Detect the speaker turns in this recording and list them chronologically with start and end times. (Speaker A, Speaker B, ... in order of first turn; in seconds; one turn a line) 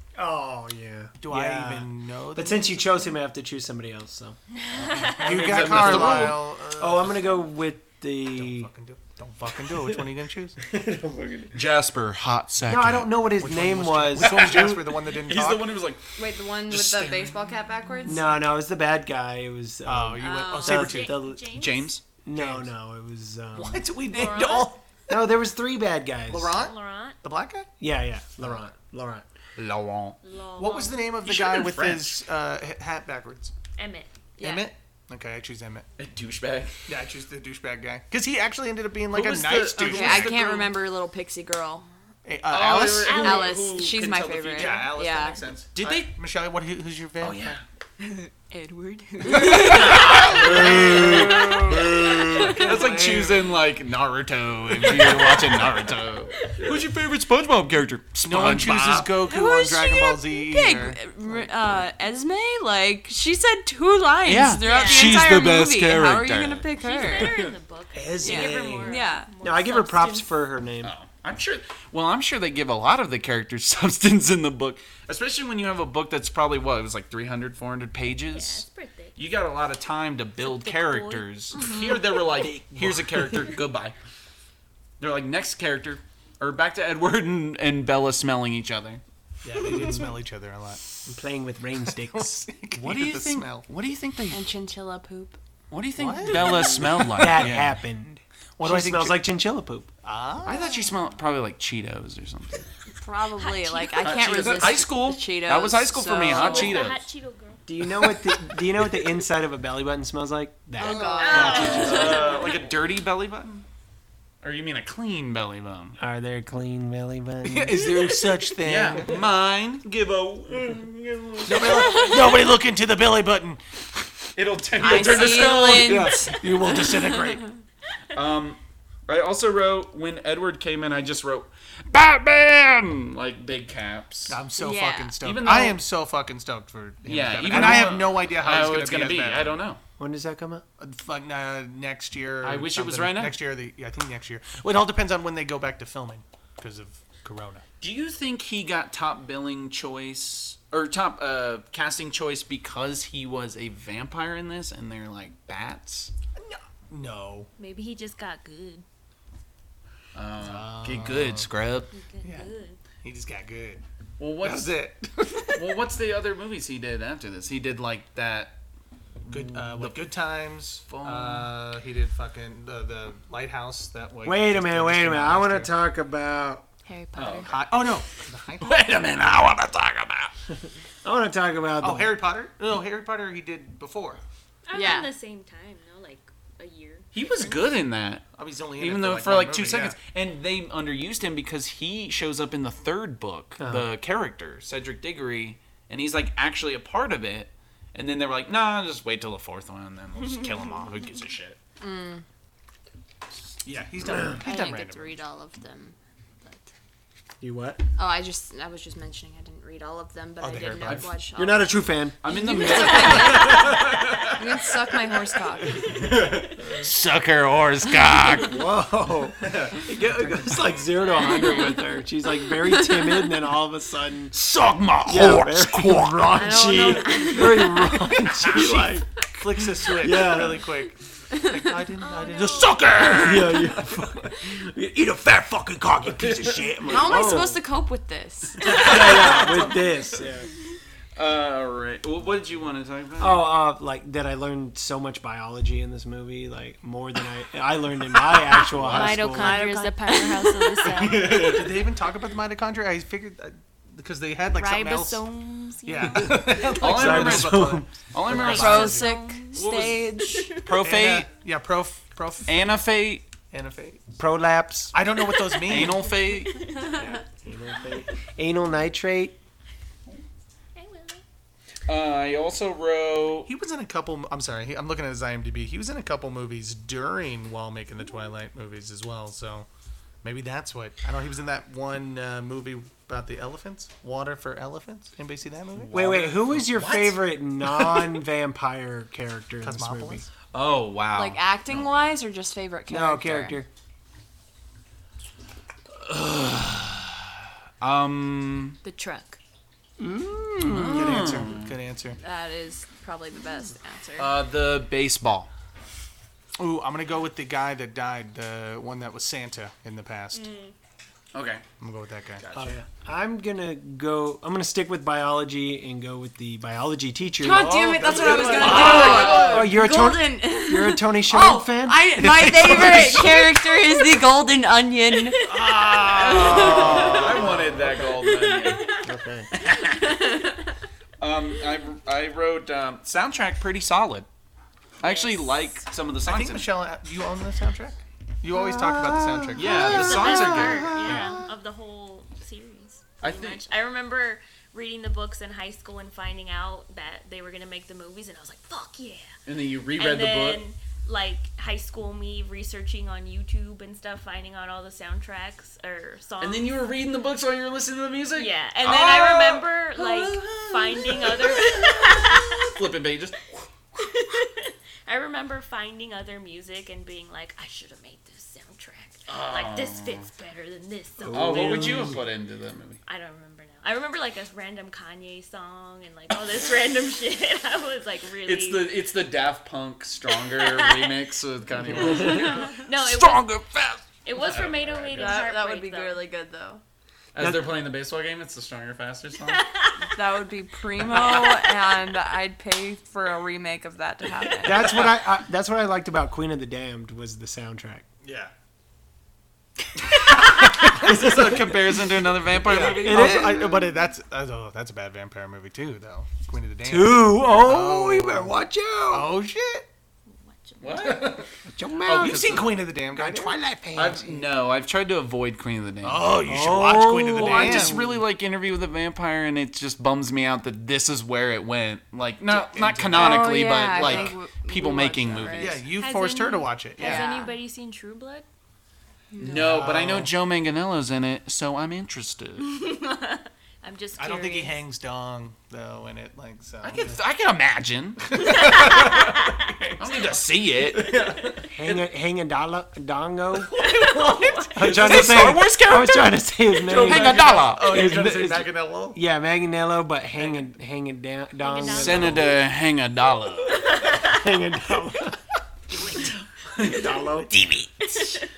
Speaker A: 0.1-4.4
Speaker B: 1.2-2.9
Speaker C: 4.6-5.5
Speaker D: 4.9-6.5
Speaker A: 5.0-8.7
Speaker B: 5.2-7.2
Speaker B: 8.3-10.6
Speaker A: 9.7-10.0
Speaker A: 10.6-11.6
Speaker D: 11.5-13.3
Speaker A: 12.7-14.8
Speaker B: 13.3-15.7
Speaker D: 14.2-16.1
Speaker E: 16.1-18.4
Speaker D: 16.7-17.4
Speaker A: 18.1-21.5
Speaker B: 19.8-21.2
Speaker E: 20.2-20.9
Speaker C: 20.5-22.0
Speaker D: 21.5-22.0
Speaker A: 22.2-23.9
Speaker B: 22.3-22.7
Speaker B: 23.5-24.8
Speaker C: 24.1-24.7
Speaker A: 25.1-26.6
Speaker B: 26.3-27.7
Speaker C: 26.5-27.2
Speaker A: 27.8-29.2
Speaker D: 29.6-30.2
Speaker C: 30.2-31.1
Speaker B: 30.6-33.5
Speaker D: 31.2-32.2
Speaker C: 33.8-34.6
Speaker B: 34.4-35.9
Speaker D: 36.0-36.9
Speaker B: 36.9-40.3
Speaker D: 39.1-40.7
Speaker E: 39.8-41.9
Speaker B: 42.2-43.3
Speaker D: 42.5-44.8
Speaker C: 43.0-43.6
Speaker E: 43.2-45.4
Speaker B: 44.5-47.6
Speaker D: 45.7-46.1
Speaker D: 47.2-47.6
Speaker C: 48.0-52.7
Speaker E: 49.2-50.0
Speaker D: 49.3-59.1
Speaker B: 49.4-53.5
Speaker B: 54.8-55.9
Speaker C: 56.3-56.7
Speaker B: 58.2-61.0
Speaker E: 59.2-67.4
Speaker D: 64.2-67.5
Speaker C: 64.6-65.3
Speaker C: 66.7-70.4
Speaker A: 67.3-70.9
Speaker E: 68.2-69.3
Speaker D: 70.8-84.0
Speaker C: 78.3-79.2
Speaker C: 80.4-82.0
Speaker E: 81.5-82.0
Speaker A: 82.3-83.3
Speaker D: 85.0-89.0
Speaker B: 89.4-90.8
Speaker A: 91.0-92.4
Speaker B: 92.0-93.7
Speaker D: 92.7-94.5
Speaker E: 94.3-95.4
Speaker D: 95.7-97.8
Speaker B: 96.0-97.5
Speaker A: 97.1-99.9
Speaker B: 98.6-99.2
Speaker B: 100.0-100.7
Speaker D: 100.4-102.7
Speaker C: 100.6-100.9
Speaker E: 103.0-106.8
Speaker C: 103.4-104.8
Speaker D: 104.0-107.1
Speaker C: 106.2-107.6
Speaker A: 107.7-112.2
Speaker E: 110.8-112.4
Speaker C: 110.8-112.7
Speaker D: 111.0-113.6
Speaker B: 111.5-112.5
Speaker D: 114.4-116.0
Speaker A: 116.0-118.3
Speaker B: 117.4-119.2
Speaker D: 118.6-122.1
Speaker B: 121.4-124.1
Speaker D: 124.3-126.2
Speaker E: 124.8-126.8
Speaker B: 124.8-127.5
Speaker D: 128.1-134.4
Speaker B: 134.3-139.6
Speaker E: 134.6-135.2
Speaker D: 135.2-135.8
Speaker D: 137.0-139.8
Speaker A: 137.5-138.0
Speaker A: 140.0-140.6
Speaker B: 140.8-147.6
Speaker D: 142.4-143.4
Speaker D: 147.8-156.1
Speaker B: 156.3-157.5
Speaker C: 157.6-158.8
Speaker D: 160.1-161.9
Speaker B: 160.4-161.5
Speaker C: 161.9-162.8
Speaker B: 162.2-162.5
Speaker B: 163.0-163.8
Speaker D: 164.2-164.7
Speaker B: 164.4-165.6
Speaker D: 165.5-168.5
Speaker D: 169.2-170.0
Speaker B: 169.3-175.7
Speaker D: 170.9-171.5
Speaker A: 174.2-176.6
Speaker C: 176.9-177.5
Speaker D: 177.2-177.6
Speaker B: 177.4-178.8
Speaker D: 178.6-180.3
Speaker A: 181.0-182.1
Speaker B: 181.8-184.2
Speaker C: 184.7-187.6
Speaker E: 184.7-185.1
Speaker D: 187.1-201.6
Speaker B: 188.3-190.0
Speaker A: 193.6-193.9
Speaker C: 200.2-200.9
Speaker E: 201.8-202.2
Speaker B: 203.6-205.2
Speaker E: 204.4-206.7
Speaker A: 207.4-207.8
Speaker E: 208.0-216.0
Speaker B: 210.4-211.1
Speaker D: 210.8-211.1
Speaker A: 211.3-212.2
Speaker D: 212.2-214.4
Speaker C: 212.6-213.6
Speaker D: 215.8-218.6
Speaker B: 216.0-216.9
Speaker A: 218.4-224.3
Speaker D: 219.5-219.8
Speaker C: 221.3-221.8
Speaker E: 222.7-223.3
Speaker D: 224.3-226.5
Speaker A: 225.1-229.1
Speaker E: 226.3-227.9
Speaker C: 226.5-227.9
Speaker B: 228.2-234.0
Speaker D: 228.3-228.8
Speaker A: 229.9-230.7
Speaker E: 231.3-231.6
Speaker C: 232.0-233.2
Speaker D: 232.4-233.8
Speaker A: 233.1-237.6
Speaker D: 236.2-237.4
Speaker E: 236.8-238.9
Speaker D: 238.6-240.2
Speaker A: 238.6-240.5
Speaker B: 238.8-239.3
Speaker D: 241.2-243.4
Speaker A: 243.2-249.6
Speaker D: 248.8-249.2
Speaker C: 248.9-251.6
Speaker E: 248.9-250.8
Speaker D: 250.9-251.9
Speaker B: 250.9-255.2
Speaker C: 254.5-256.5
Speaker B: 255.8-259.1
Speaker A: 256.2-258.6
Speaker D: 256.6-261.3
Speaker E: 258.4-260.6
Speaker C: 258.6-259.7
Speaker C: 260.2-260.8
Speaker B: 260.8-262.8
Speaker D: 262.5-263.2
Speaker B: 263.5-264.0
Speaker A: 264.2-264.9
Speaker B: 264.9-266.1
Speaker C: 265.2-267.2
Speaker D: 265.6-266.6
Speaker A: 266.9-269.4
Speaker C: 270.7-271.2
Speaker D: 271.9-273.5
Speaker B: 273.4-279.7
Speaker B: 280.2-286.3
Speaker D: 285.7-288.2
Speaker A: 285.9-290.2
Speaker B: 289.6-290.2
Speaker D: 290.5-292.1
Speaker E: 291.1-293.6
Speaker A: 292.9-293.7
Speaker D: 296.0-298.8
Speaker C: 298.8-299.4
Speaker A: 300.0-301.4
Speaker D: 300.6-301.8
Speaker B: 300.7-302.2
Speaker E: 302.2-304.3
Speaker D: 304.2-305.5
Speaker B: 306.6-310.5
Speaker C: 310.3-310.7
Speaker D: 311.3-311.6
Speaker B: 311.8-312.7
Speaker D: 312.4-312.6
Speaker A: 312.5-323.1
Speaker E: 317.4-325.5
Speaker B: 317.4-319.7
Speaker D: 318.1-319.8
Speaker B: 322.2-323.4
Speaker C: 325.3-327.2
Speaker B: 325.4-328.2
Speaker D: 326.0-328.9
Speaker A: 326.3-327.5
Speaker E: 326.4-326.9
Speaker C: 328.2-329.1
Speaker A: 329.0-329.5
Speaker D: 329.6-330.1
Speaker C: 329.8-330.5
Speaker D: 331.2-334.3
Speaker D: 335.0-336.7
Speaker C: 335.0-335.8
Speaker B: 336.2-340.4
Speaker A: 338.5-341.4
Speaker D: 339.5-341.3
Speaker C: 339.7-349.3
Speaker B: 341.0-341.3
Speaker D: 343.2-343.7
Speaker D: 349.4-350.6
Speaker C: 349.9-356.8
Speaker D: 356.4-363.7
Speaker C: 358.3-362.8
Speaker C: 363.9-372.1
Speaker D: 369.3-370.3
Speaker A: 371.2-372.2
Speaker D: 371.3-373.0
Speaker C: 373.0-378.9
Speaker D: 378.4-385.4
Speaker C: 380.3-381.2
Speaker C: 381.9-383.6
Speaker C: 384.2-386.2
Speaker E: 385.1-386.8
Speaker D: 387.3-389.6
Speaker A: 387.4-387.7
Speaker C: 389.4-390.2
Speaker E: 390.1-395.0
Speaker C: 391.1-391.7
Speaker A: 394.6-398.0
Speaker B: 398.2-398.5
Speaker D: 400.1-403.6
Speaker B: 400.5-401.7
Speaker A: 401.1-401.6
Speaker B: 402.6-408.5
Speaker A: 402.7-403.9
Speaker A: 406.8-409.3
Speaker B: 409.1-409.9
Speaker C: 410.3-411.4
Speaker D: 410.8-411.5
Speaker A: 411.7-414.5
Speaker D: 412.0-412.6
Speaker B: 412.1-413.5
Speaker D: 413.9-416.3
Speaker B: 416.0-418.0
Speaker A: 416.4-418.2
Speaker D: 417.3-425.8
Speaker B: 422.5-424.4
Speaker E: 423.1-425.8
Speaker B: 425.5-427.3
Speaker C: 425.9-428.4
Speaker E: 427.0-427.6
Speaker D: 429.4-432.7
Speaker B: 429.4-430.3
Speaker C: 432.6-434.8
Speaker B: 434.2-437.1
Speaker D: 436.8-438.7
Speaker B: 438.3-441.7
Speaker C: 438.4-439.6
Speaker D: 440.0-441.2
Speaker A: 441.7-443.8
Speaker C: 443.7-444.8
Speaker B: 443.8-445.6
Speaker A: 444.7-452.6
Speaker D: 444.8-448.1
Speaker B: 446.8-449.2
Speaker B: 450.4-450.6
Speaker C: 451.6-452.6
Speaker D: 451.9-454.0
Speaker C: 453.7-454.4
Speaker A: 454.1-455.4
Speaker D: 456.0-458.2
Speaker A: 456.8-457.5
Speaker C: 458.0-458.5